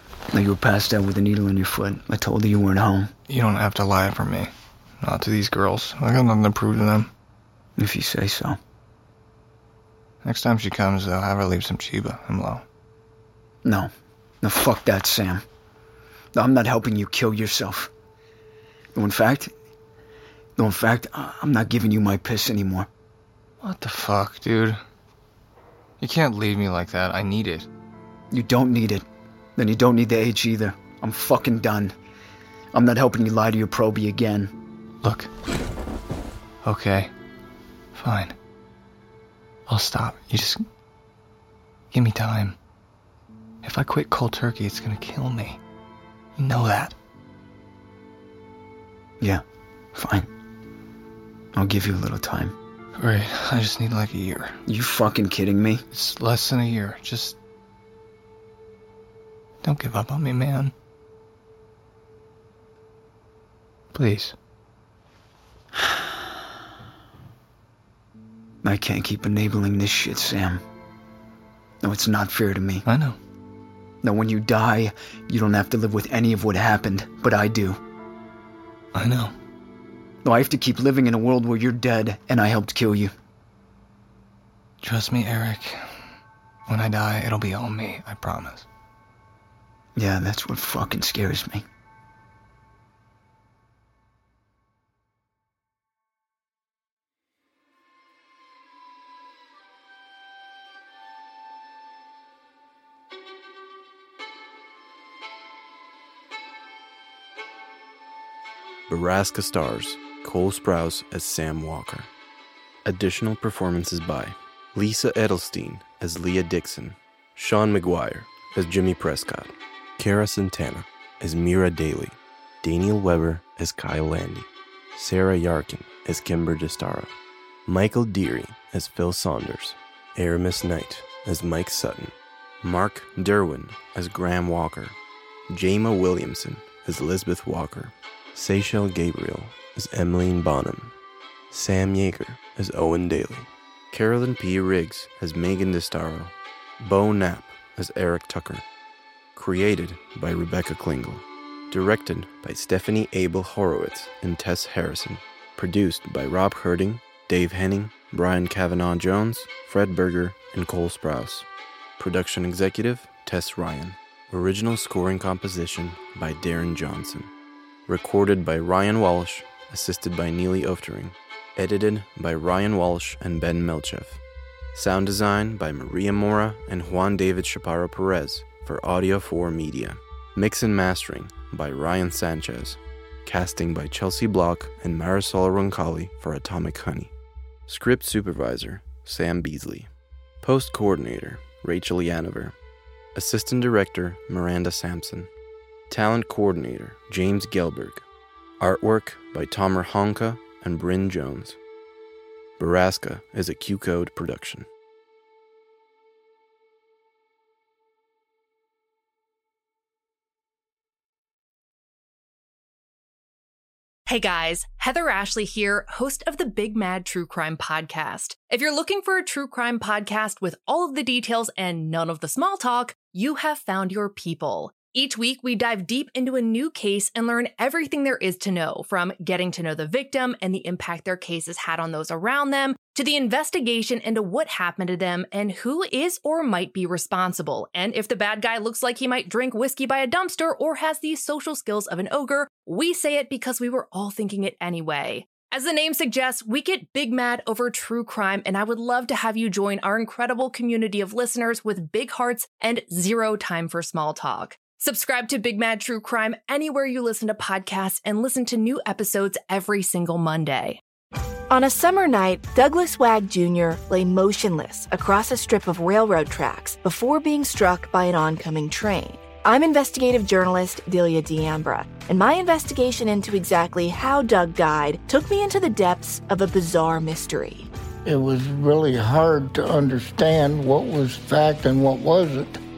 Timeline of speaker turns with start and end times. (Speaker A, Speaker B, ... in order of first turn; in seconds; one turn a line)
Speaker A: 0.3-3.1
Speaker B: 3.3-7.1
Speaker A: 7.8-8.6
Speaker B: 10.2-12.6
Speaker A: 13.7-13.9
Speaker A: 14.4-15.4
Speaker A: 16.4-17.9
Speaker A: 18.9-19.5
Speaker A: 20.6-22.9
Speaker B: 23.6-24.8
Speaker B: 26.0-27.7
Speaker A: 28.3-29.1
Speaker A: 29.6-31.9
Speaker A: 32.7-34.5
Speaker B: 35.0-35.3
Speaker B: 36.6-37.1
Speaker B: 38.0-38.4
Speaker B: 39.7-40.6
Speaker B: 41.9-42.6
Speaker B: 43.6-45.6
Speaker B: 46.4-46.9
Speaker A: 49.9-50.3
Speaker A: 51.5-52.5
Speaker B: 53.0-54.6
Speaker A: 54.7-55.8
Speaker B: 55.9-57.4
Speaker B: 59.6-60.7
Speaker B: 63.9-64.3
Speaker A: 68.6-70.6
Speaker A: 71.8-72.9
Speaker B: 72.8-73.2
Speaker A: 74.0-77.8
Speaker B: 78.9-79.3
Speaker A: 80.2-83.1
Speaker B: 84.8-86.0
Speaker B: 86.7-88.7
Speaker A: 90.0-91.6
Speaker C: 108.9-112.1
Speaker C: 112.8-127.1
Speaker C: 127.7-134.9
Speaker C: 135.5-140.9
Speaker C: 141.5-148.6
Speaker C: 149.4-161.5
Speaker C: 162.0-167.3
Speaker C: 167.9-174.2
Speaker C: 174.7-187.1
Speaker C: 187.7-189.9
Speaker C: 190.4-192.5
Speaker C: 193.2-195.3
Speaker C: 195.9-198.1
Speaker C: 198.6-201.6
Speaker C: 202.6-204.7
Speaker D: 214.1-260.8
Speaker E: 261.5-277.7
Speaker F: 278.1-282.6